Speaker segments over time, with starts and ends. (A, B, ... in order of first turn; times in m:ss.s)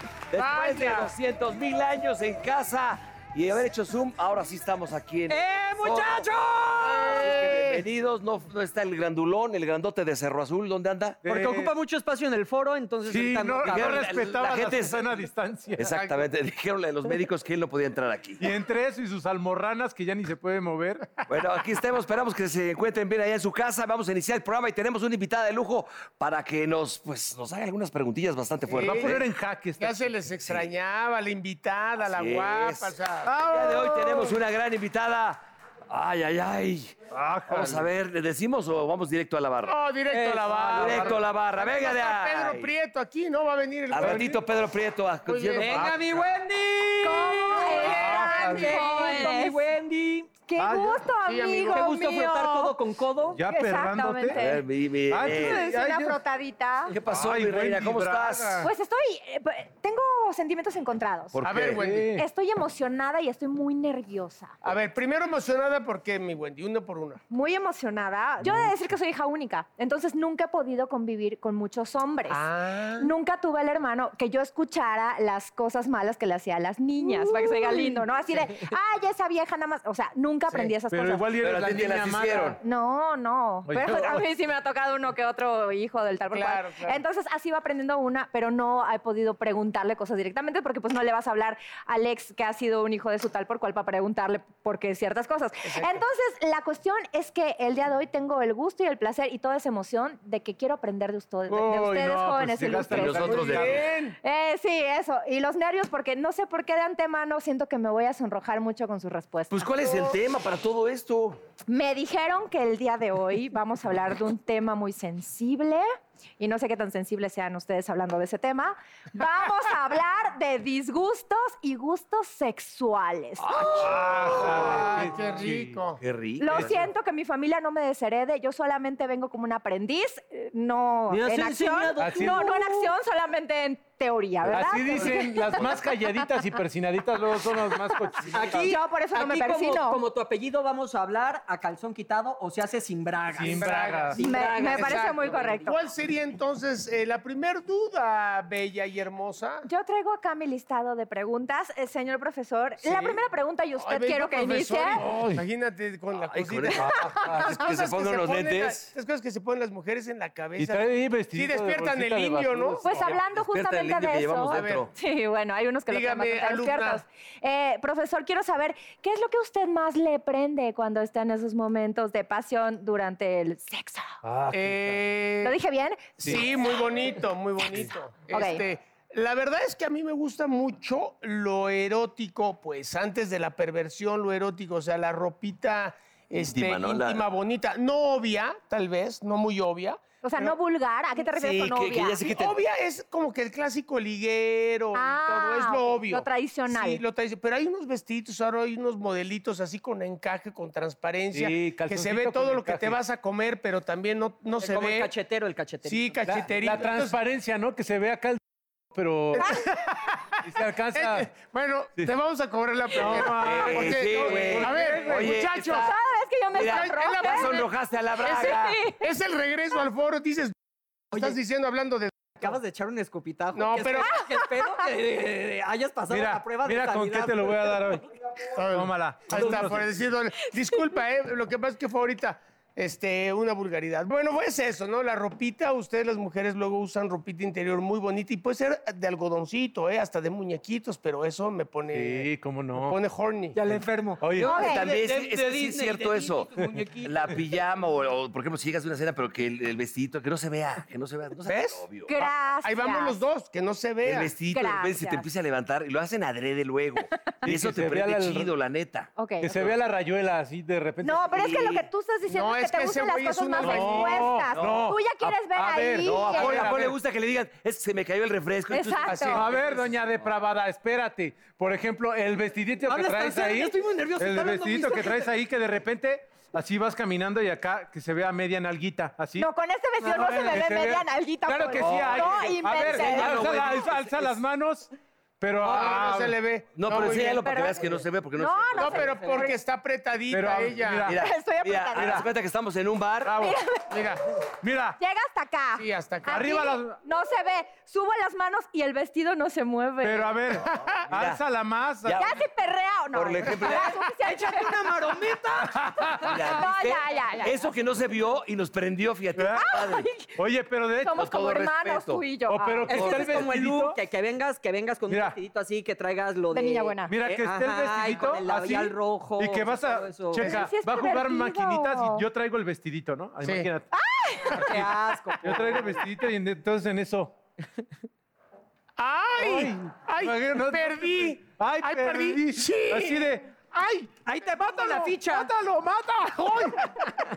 0:00.3-0:11.2 A
0:00.3-0:01.1 B
0:05.3-0:07.4 C
0:06.8-0:07.8 B
0:11.2-0:11.7 D
0:11.2-0:14.1 C
0:13.0-0:16.0 D
0:13.6-0:15.2 A
0:15.8-0:18.4 A
0:15.9-0:16.2 B
0:18.4-0:21.1 D
0:21.3-0:29.2 A
0:28.7-0:29.2 B
0:28.8-0:30.0 D
0:29.8-0:33.3 B
0:32.0-0:39.8 A
0:33.2-0:34.4 D
0:37.1-0:37.9 D
0:39.6-0:44.4 B
0:40.1-0:41.1 C
0:40.5-0:41.2 D
0:40.7-0:42.7 A
0:43.9-0:46.0 A
0:43.9-0:44.4 D
0:45.2-0:45.9 B
0:45.5-0:50.3 C
0:45.7-0:46.2 D
0:47.0-0:49.6 E
0:47.8-0:48.8 D
0:50.5-0:52.7 E
0:50.6-0:51.0 D
0:51.2-0:51.9 B
0:51.7-0:53.4 C
0:53.3-0:54.4 D
0:53.4-0:54.6 E
0:54.3-0:55.7 A
0:55.1-0:56.2 D
0:55.2-0:56.9 E
0:56.9-0:58.7 A
0:57.0-0:58.7 D
0:58.6-1:01.4 E
1:01.3-1:01.8 A
1:01.4-1:02.1 B
1:01.4-1:02.2 D
1:02.1-1:04.5 E
1:04.6-1:07.2 B
1:07.3-1:12.4 E
1:08.4-1:08.7 D
1:12.3-1:13.1 B
1:13.0-1:21.3 E
1:17.1-1:18.0 B
1:20.9-1:22.6 D
1:21.4-1:22.6 A
1:22.6-1:43.6 E
1:23.7-1:24.2 D
1:26.3-1:27.0 B
1:35.6-1:36.0 B
1:41.5-1:43.8 D
1:42.9-1:43.8 A
1:43.3-1:44.2 B
1:44.2-1:50.1 E
1:49.5-1:51.4 A
1:51.7-1:55.8 E
1:56.4-2:03.8 E
2:03.4-2:05.1 A
2:03.7-2:06.0 B
2:03.7-2:05.8 D
2:06.0-2:06.8 A
2:06.4-2:15.7 E
2:11.1-2:12.9 C
2:12.0-2:12.5 D
2:14.4-2:18.8 D
2:18.3-2:25.8 C
2:18.6-2:20.0 E
2:23.3-2:24.2 D
2:23.5-2:29.6 B
2:24.2-2:25.7 E
2:29.6-2:35.0 E
2:32.8-2:33.2 B
2:33.8-2:43.0 B
2:35.0-2:35.4 D
2:36.1-2:38.9 A
2:37.1-2:37.5 D
2:40.6-2:43.2 D
2:42.8-2:54.1 E
2:43.3-2:44.9 A
2:44.4-2:44.9 B
2:45.9-2:47.0 B
2:54.2-2:54.8 D
2:54.5-2:55.6 B
2:55.4-2:56.1 E
2:56.2-3:10.6 B
2:58.3-2:58.6 E
3:06.4-3:07.2 A
3:10.2-3:12.2 E
3:11.3-3:12.6 A
3:12.2-3:25.1 B
3:14.9-3:17.0 E
3:21.3-3:23.0 D
3:24.6-3:26.2 C
3:25.8-3:27.2 B
3:26.2-3:28.4 D
3:28.9-3:29.6 D
3:29.3-3:29.6 E
3:30.4-3:31.3 D
3:30.9-3:35.9 B
3:32.9-3:35.4 D
3:33.3-3:35.9 A
3:35.5-3:37.6 E
3:36.5-3:38.8 A
3:36.6-3:40.5 B
3:38.3-3:39.0 E
3:41.1-3:42.5 B
3:42.4-3:47.6 C
3:43.5-3:44.1 B
3:46.1-3:48.0 D
3:48.6-4:03.6 B
3:48.7-3:49.9 D
4:01.9-4:03.0 D
4:03.5-4:07.4 C
4:04.2-4:04.9 D
4:04.4-4:12.1 A
4:04.4-4:04.8 E
4:11.4-4:14.3 B
4:12.1-4:13.2 E
4:14.0-4:19.1 A
4:14.5-4:15.3 E
4:17.4-4:18.5 D
4:19.2-4:19.7 E
4:19.4-4:21.6 D
4:21.0-4:26.7 E
4:21.3-4:21.9 A
4:22.3-4:24.4 B
4:23.6-4:26.9 D
4:24.5-4:24.9 A
4:26.0-4:30.3 A
4:28.7-4:29.4 E
4:29.0-4:29.5 B
4:29.3-4:39.5 D
4:32.8-4:35.3 C
4:39.4-4:43.5 E
4:40.0-4:46.4 D
4:41.8-4:44.3 A
4:45.6-4:48.0 B
4:46.8-4:49.2 A
4:47.4-4:47.8 E
4:48.4-4:49.6 E
4:48.7-4:51.1 B
4:50.3-4:51.2 D
4:51.0-4:53.4 A
4:51.1-4:52.2 E
4:51.9-4:52.3 D
4:53.2-4:53.6 D
4:53.3-4:53.9 E
4:53.9-4:54.4 B
4:54.6-4:55.0 D
4:55.0-5:00.3 E
4:55.8-4:56.5 B
4:56.3-4:57.0 D
5:00.0-5:02.2 D
5:00.6-5:01.0 B
5:01.1-5:01.4 A
5:02.0-5:02.4 A
5:02.2-5:04.7 E
5:03.1-5:03.9 A
5:03.5-5:05.8 C
5:05.6-5:06.5 D
5:06.2-5:10.1 A
5:06.4-5:07.7 E
5:09.4-5:09.7 D
5:09.5-5:10.3 E
5:10.3-5:11.2 D
5:11.0-5:13.1 E
5:11.2-5:12.3 A
5:12.5-5:14.0 D
5:12.9-5:20.6 C
5:12.9-5:13.5 A
5:15.1-5:15.4 D
5:16.5-5:17.1 E
5:17.1-5:23.9 D
5:20.3-5:22.2 E
5:23.4-5:23.7 B
5:23.9-5:24.6 E
5:24.5-5:24.9 D
5:24.6-5:26.0 C
5:25.4-5:27.3 D
5:29.0-5:33.3 B
5:29.4-5:34.1 D
5:34.2-5:35.5 C
5:34.4-5:35.1 B
5:35.2-5:36.9 D